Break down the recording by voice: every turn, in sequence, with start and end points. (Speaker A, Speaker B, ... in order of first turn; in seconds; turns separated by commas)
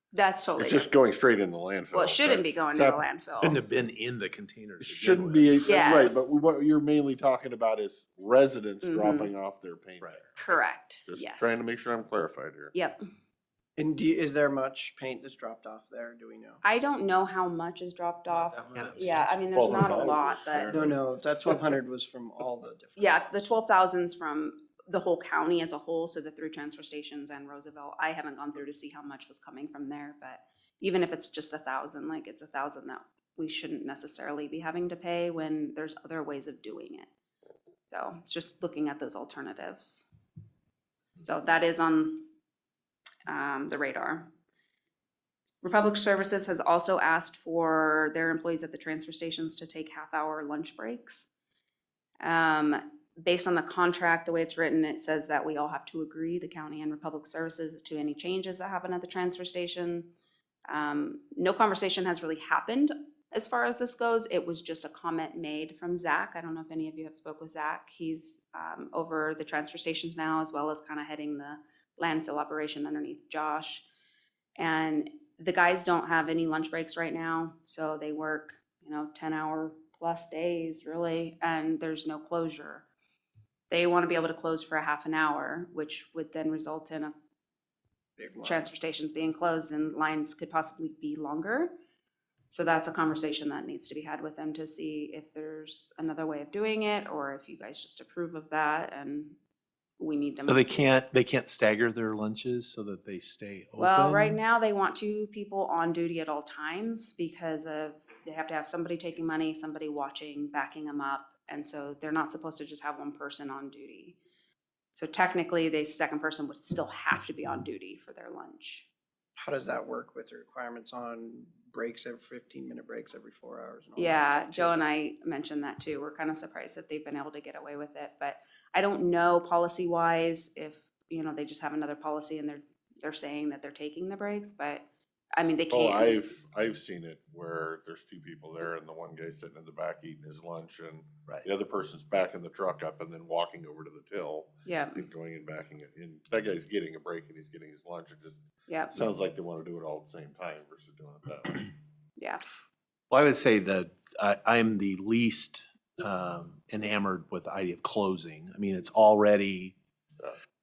Speaker A: 0.1-0.9, Speaker B: 0.6-3.0, Speaker A: 1.9-3.6, Speaker C: 3.4-5.5, Speaker B: 4.8-12.7, Speaker A: 5.6-6.4, Speaker A: 8.8-9.3, Speaker A: 10.4-11.6, Speaker D: 13.8-16.6, Speaker A: 16.6-20.7, Speaker C: 18.7-19.9, Speaker B: 19.5-21.0, Speaker D: 19.7-20.1, Speaker D: 20.7-23.1, Speaker A: 23.0-37.1, Speaker A: 37.9-40.1, Speaker A: 41.2-42.2, Speaker A: 43.3-44.3, Speaker A: 45.6-51.3, Speaker A: 52.2-60.1, Speaker A: 60.7-73.9, Speaker A: 74.6-82.9, Speaker A: 83.7-87.1, Speaker D: 88.2-88.6, Speaker A: 88.4-91.7, Speaker A: 92.5-99.4, Speaker A: 100.0-100.9, Speaker C: 100.5-104.4, Speaker A: 103.8-114.2, Speaker A: 114.9-118.9, Speaker D: 119.4-124.8, Speaker A: 124.0-136.2, Speaker B: 135.7-148.4, Speaker A: 144.7-145.1, Speaker A: 148.7-149.1, Speaker B: 148.9-151.7, Speaker C: 153.1-159.8